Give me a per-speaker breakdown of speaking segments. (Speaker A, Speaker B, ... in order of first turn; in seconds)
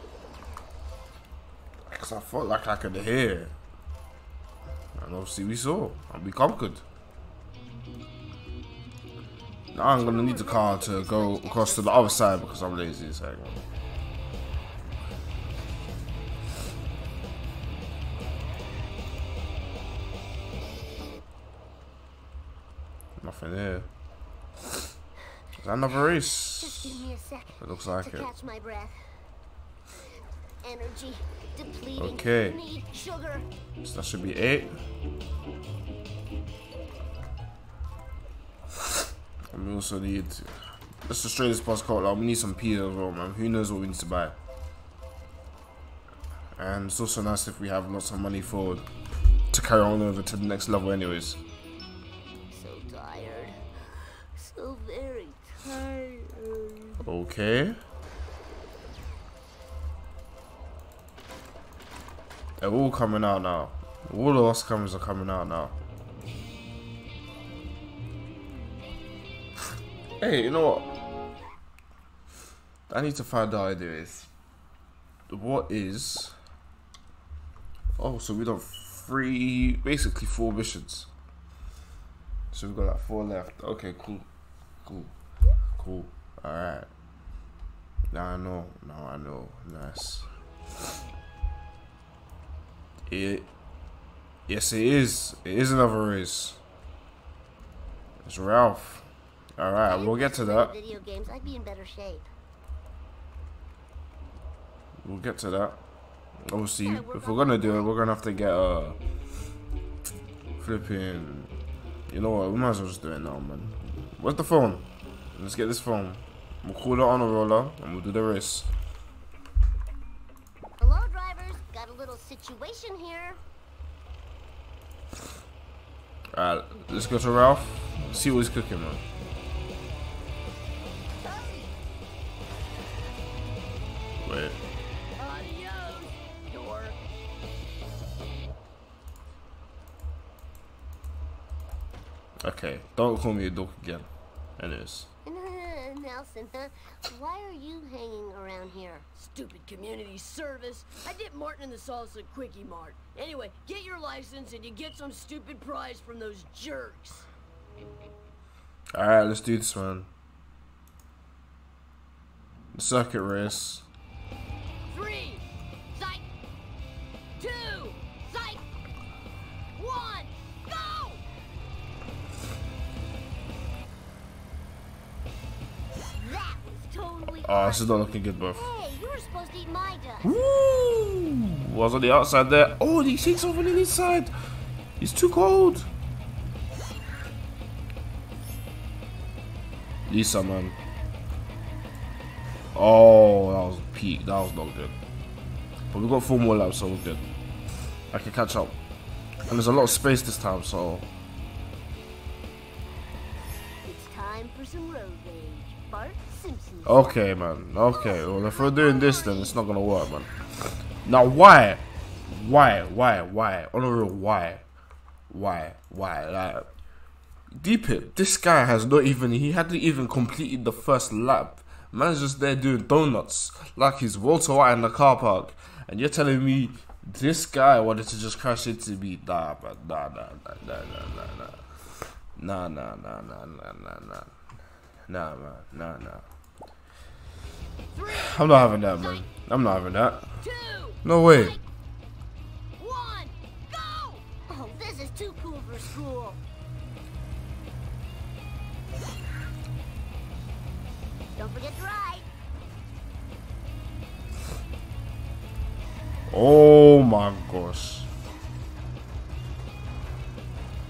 Speaker A: 1.9-3.5, 5.0-6.8, 9.7-13.6, 23.2-23.9, 25.6-27.1, 27.6-28.3, 32.0-32.6, 33.8-34.8, 39.5-44.4, 46.6-48.9, 49.5-51.4, 57.0-57.8, 62.6-65.8, 70.2-70.9, 72.9-74.3, 75.3-76.4, 78.0-81.1, 82.5-84.3, 84.8-85.1, 85.8-86.9, 88.1-90.3, 93.1-93.5, 94.5-96.6, 98.2-100.7, 105.0-105.8, 106.5-109.0, 110.6-111.5, 112.1-118.7, 126.3-129.0, 134.2-134.6, 142.4-145.1, 158.9-160.1, 162.7-163.9, 177.5-178.7, 180.2-184.3, 185.0-185.9, 190.1-190.8, 192.8-195.0, 195.9-197.3, 198.1-198.8, 199.5-201.1, 206.8-214.6, 215.3-216.7, 217.5-231.6, 232.3-234.3, 235.1-236.3, 238.1-240.3, 241.0-241.6, 256.3-258.1
Speaker B: 9.9-12.6, 26.6-29.0, 30.6-33.5, 52.5-57.0, 99.8-102.3, 106.8-107.9, 120.8-123.4, 131.2-131.7, 135.2-137.0, 145.2-149.1, 167.4-168.6, 169.8-170.1, 170.7-171.1, 176.2-180.4, 203.8-207.2, 207.9-209.6, 237.9-239.3, 240.4-241.6, 244.4-246.4, 251.4-252.3
Speaker C: 149.2-157.3, 164.9-165.4